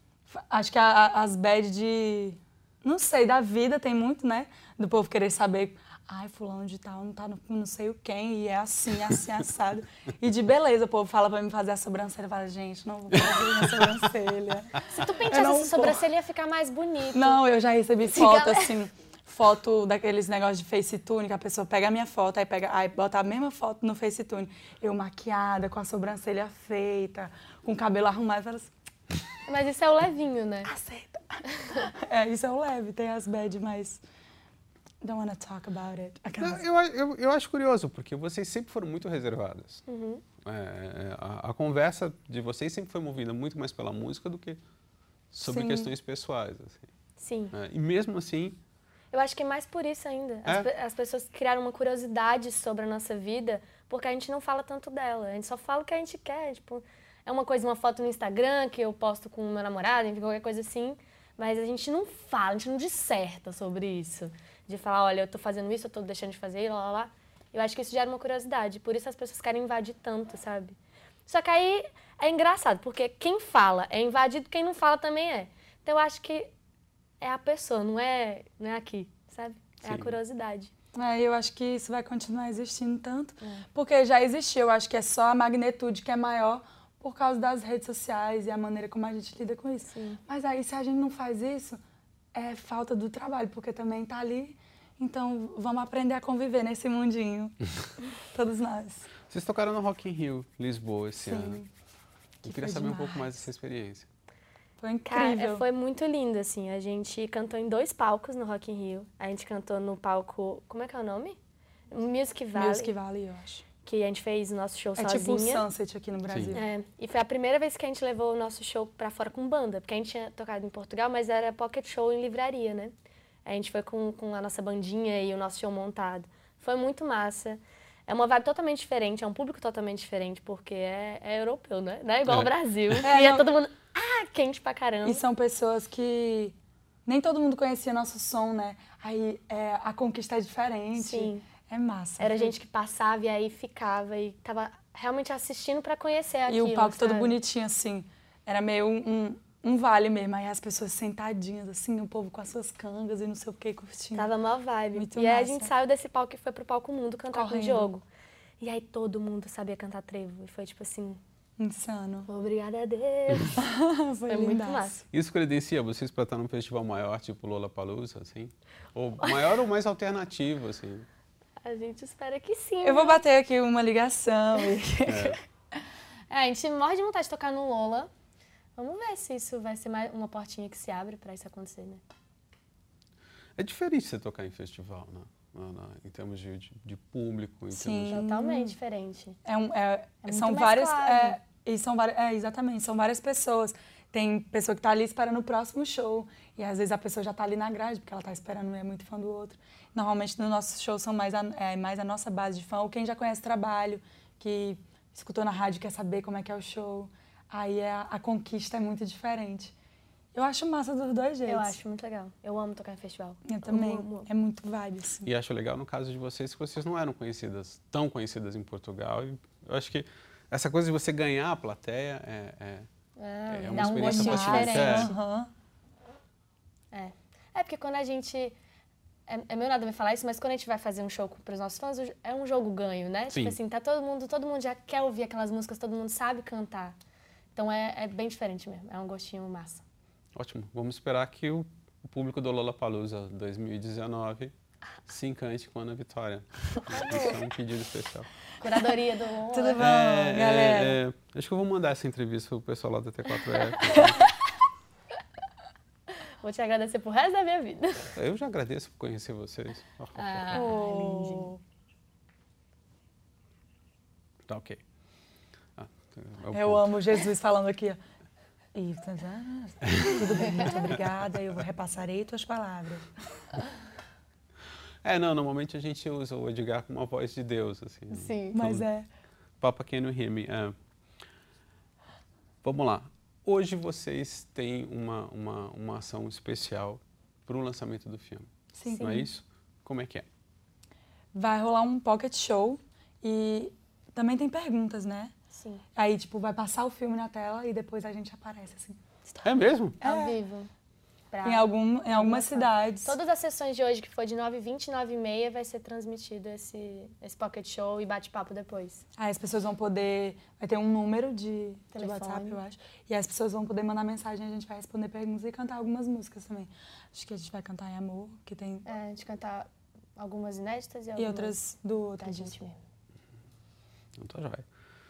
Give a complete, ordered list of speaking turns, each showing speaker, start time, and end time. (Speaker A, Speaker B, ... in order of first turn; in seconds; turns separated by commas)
Speaker A: 0.3-16.1, Speaker B: 14.9-17.4, Speaker A: 17.1-28.7, Speaker B: 18.1-18.8, Speaker B: 29.5-30.7, Speaker A: 30.6-34.0, Speaker B: 31.5-31.9, Speaker A: 35.0-36.6, Speaker C: 36.4-39.8, Speaker B: 39.9-40.2, Speaker C: 40.4-44.6, Speaker C: 45.3-46.9, Speaker A: 45.5-45.9, Speaker B: 47.2-47.5, Speaker C: 47.5-48.6, Speaker B: 49.1-76.5, Speaker B: 77.2-80.7, Speaker C: 79.8-80.1, Speaker A: 81.0-91.8, Speaker B: 89.9-90.2, Speaker A: 92.3-99.1, Speaker C: 99.3-101.6, Speaker A: 101.2-101.7, Speaker A: 102.4-103.4, Speaker C: 102.4-104.1, Speaker A: 104.8-105.6, Speaker B: 105.1-111.4, Speaker B: 111.9-112.9, Speaker A: 112.5-113.6, Speaker B: 113.8-115.6, Speaker A: 115.0-116.6, Speaker C: 116.3-116.5, Speaker B: 116.5-122.9, Speaker B: 123.5-135.2, Speaker C: 132.3-133.1, Speaker A: 133.0-133.5, Speaker A: 135.0-136.6, Speaker A: 137.1-142.6, Speaker B: 140.9-141.4, Speaker B: 142.2-147.4, Speaker A: 146.5-154.3, Speaker B: 154.1-158.0, Speaker A: 154.9-155.7, Speaker A: 157.3-157.9, Speaker B: 158.6-161.2, Speaker A: 161.6-162.3, Speaker B: 162.3-163.7, Speaker A: 163.6-164.9, Speaker B: 164.3-165.0, Speaker C: 165.1-171.1, Speaker B: 171.6-173.2, Speaker A: 172.8-175.4, Speaker C: 175.1-175.4, Speaker B: 176.3-178.1, Speaker B: 178.8-182.0, Speaker C: 183.6-188.3, Speaker A: 187.7-188.8, Speaker B: 188.1-189.4, Speaker A: 189.4-209.7, Speaker B: 190.2-191.4, Speaker A: 210.3-211.8, Speaker B: 211.5-214.3, Speaker A: 213.5-215.3, Speaker C: 215.2-222.9, Speaker B: 223.2-225.2, Speaker C: 223.5-225.1, Speaker A: 223.8-225.5, Speaker B: 226.9-228.6, Speaker B: 229.3-237.0, Speaker C: 233.3-233.6, Speaker B: 237.6-239.8, Speaker C: 240.3-244.5, Speaker C: 245.1-248.3, Speaker B: 246.9-247.3, Speaker B: 248.6-249.8, Speaker A: 249.5-251.0, Speaker C: 249.8-254.2, Speaker A: 253.8-254.2, Speaker B: 256.4-258.1, Speaker C: 258.1-260.7, Speaker B: 260.1-261.6, Speaker A: 260.5-261.6, Speaker C: 264.5-264.8, Speaker C: 265.8-267.0, Speaker A: 266.5-268.0, Speaker A: 268.7-273.1, Speaker C: 269.8-270.7, Speaker B: 270.4-270.9, Speaker C: 275.0-278.9, Speaker B: 278.1-278.6, Speaker A: 278.5-279.1, Speaker C: 279.6-280.8, Speaker C: 282.6-290.3, Speaker A: 288.8-289.3, Speaker B: 288.9-289.3, Speaker A: 291.3-295.3, Speaker B: 295.5-295.8, Speaker A: 295.9-299.5, Speaker C: 299.4-300.0, Speaker A: 300.0-300.4, Speaker B: 300.0-300.7, Speaker B: 301.3-309.0, Speaker A: 301.4-303.2, Speaker A: 309.2-318.9, Speaker B: 311.9-312.6, Speaker B: 318.9-321.6, Speaker A: 321.1-322.7, Speaker B: 322.2-322.8, Speaker C: 324.1-324.6